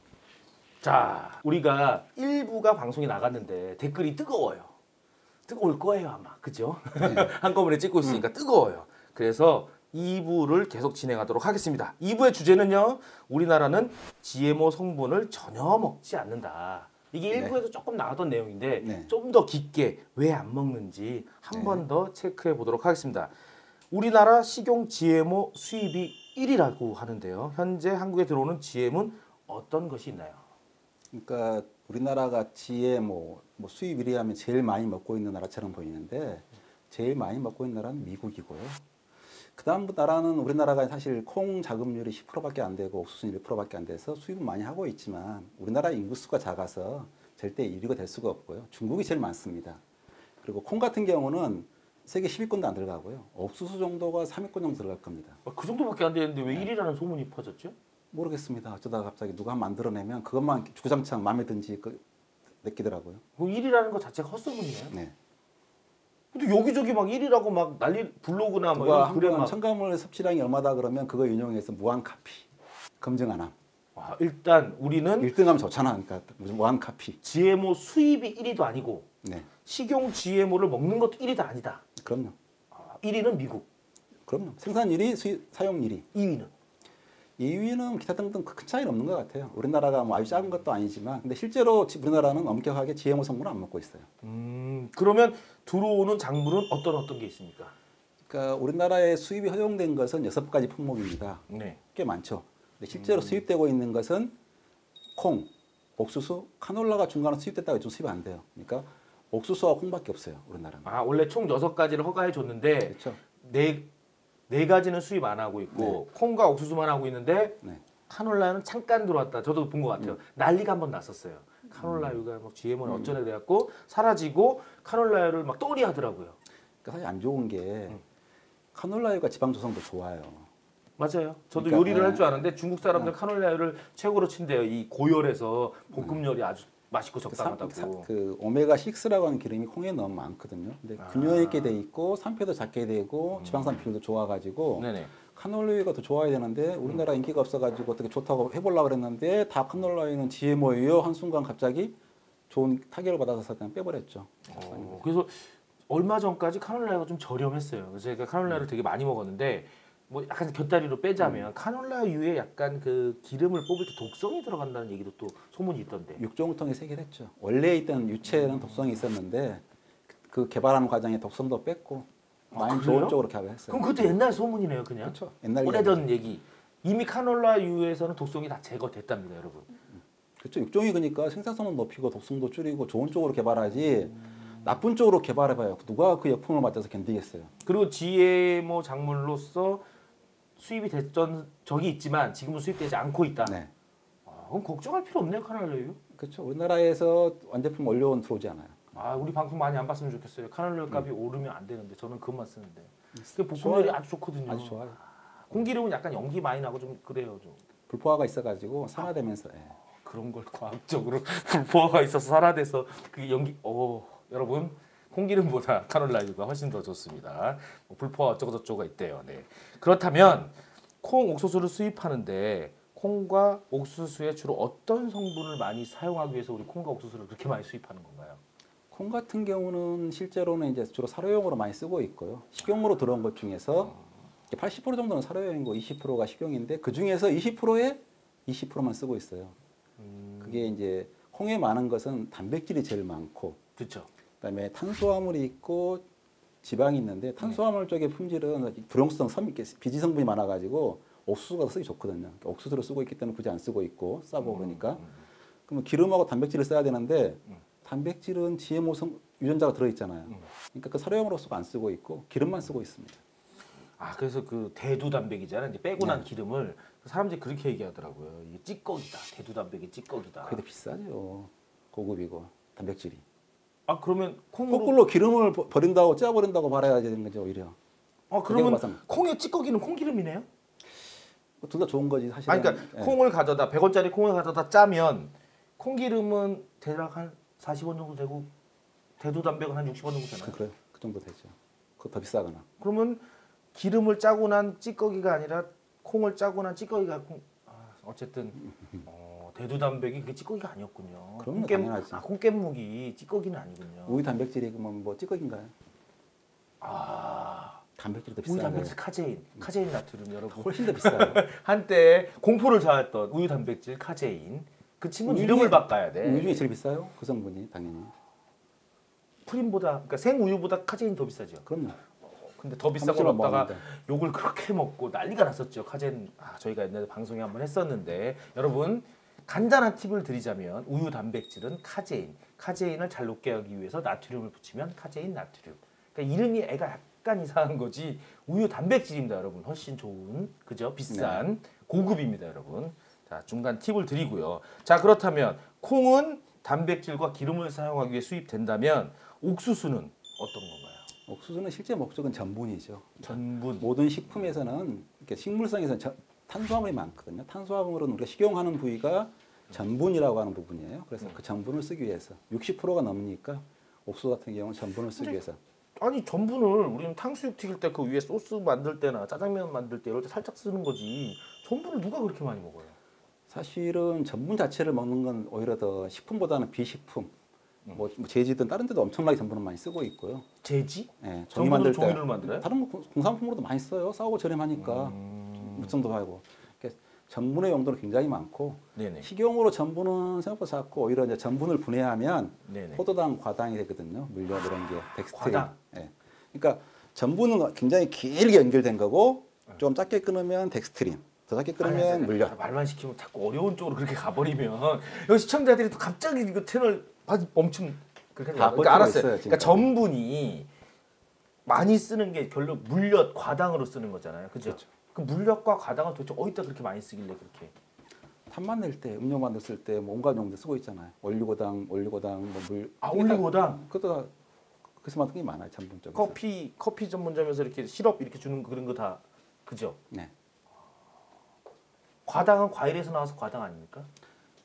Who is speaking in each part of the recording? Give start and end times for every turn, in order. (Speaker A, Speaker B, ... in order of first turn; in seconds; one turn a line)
Speaker A: 0.8-4.7
Speaker A: 5.5-23.3
Speaker B: 7.0-7.3
Speaker B: 17.3-17.6
Speaker B: 18.8-19.1
Speaker B: 21.5-21.8
Speaker A: 23.9-30.4
Speaker B: 31.1-38.8
Speaker B: 39.5-49.8
Speaker B: 50.4-55.4
Speaker A: 55.4-57.8
Speaker B: 58.1-62.0
Speaker B: 62.6-63.2
Speaker A: 63.4-64.9
Speaker A: 66.3-69.6
Speaker B: 68.7-72.5
Speaker B: 73.0-73.5
Speaker A: 74.0-75.3
Speaker B: 75.2-77.2
Speaker A: 77.2-79.1
Speaker B: 79.2-79.5
Speaker A: 79.6-81.8
Speaker B: 82.0-82.3
Speaker A: 82.7-83.7
Speaker B: 84.3-86.0
Speaker A: 86.1-86.5
Speaker B: 87.4-94.1
Speaker A: 94.2-97.8
Speaker B: 98.3-101.4
Speaker A: 101.5-101.8
Speaker B: 102.0-104.3
Speaker A: 102.9-103.4
Speaker B: 105.2-110.9
Speaker A: 110.8-113.9
Speaker B: 112.9-113.2
Speaker A: 114.5-126.4
Speaker B: 115.7-116.0
Speaker B: 121.7-122.2
Speaker B: 122.8-123.1
Speaker B: 126.8-128.0
Speaker B: 128.7-130.5
Speaker A: 131.0-138.1
Speaker B: 131.6-133.2
Speaker B: 135.9-136.2
Speaker B: 137.3-151.9
Speaker A: 141.0-141.8
Speaker A: 143.3-143.9
Speaker A: 144.8-145.1
Speaker B: 152.5-155.0
Speaker A: 154.5-166.2
Speaker B: 161.2-161.5
Speaker B: 166.2-174.1
Speaker A: 168.3-169.0
Speaker A: 172.5-173.2
Speaker A: 173.7-179.7
Speaker B: 175.0-176.1
Speaker B: 180.4-187.5
Speaker A: 187.6-189.8
Speaker A: 190.6-193.6
Speaker B: 193.4-193.7
Speaker A: 194.2-196.0
Speaker B: 196.1-199.0
Speaker A: 198.9-207.6
Speaker B: 203.2-205.0
Speaker B: 207.9-209.8
Speaker A: 210.0-228.4
Speaker B: 228.9-233.9
Speaker B: 234.5-239.5
Speaker A: 240.0-240.7
Speaker B: 240.4-243.6
Speaker A: 243.8-244.1
Speaker B: 244.4-246.0
Speaker B: 246.6-255.0
Speaker A: 254.4-255.2
Speaker B: 255.7-263.2
Speaker A: 264.0-270.6
Speaker B: 266.0-266.3
Speaker B: 270.4-273.2
Speaker A: 273.9-274.9
Speaker B: 274.7-277.8
Speaker A: 278.3-280.4
Speaker B: 278.5-279.0
Speaker B: 281.6-283.2
Speaker A: 282.5-288.5
Speaker A: 289.2-290.6
Speaker B: 290.4-292.6
Speaker A: 292.8-304.2
Speaker B: 298.6-299.1
Speaker B: 301.4-302.2
Speaker B: 304.1-305.7
Speaker A: 306.8-307.8
Speaker B: 308.0-308.9
Speaker A: 308.4-316.6
Speaker B: 310.5-311.4
Speaker B: 315.3-318.1
Speaker A: 319.4-321.6
Speaker B: 321.6-322.0
Speaker A: 322.2-351.1
Speaker B: 322.9-323.8
Speaker B: 341.1-341.4
Speaker B: 351.3-365.6
Speaker A: 353.2-353.9
Speaker A: 365.1-365.4
Speaker A: 366.0-372.9
Speaker B: 373.5-377.3
Speaker B: 377.9-380.4
Speaker A: 380.6-382.7
Speaker B: 381.2-402.5
Speaker A: 384.8-386.0
Speaker A: 388.9-389.3
Speaker A: 392.6-393.0
Speaker A: 395.2-395.7
Speaker A: 401.8-410.7
Speaker B: 408.5-409.9
Speaker A: 411.6-417.7
Speaker B: 418.5-424.3
Speaker A: 423.0-423.8
Speaker B: 425.0-426.4
Speaker A: 426.1-430.0
Speaker A: 432.2-434.1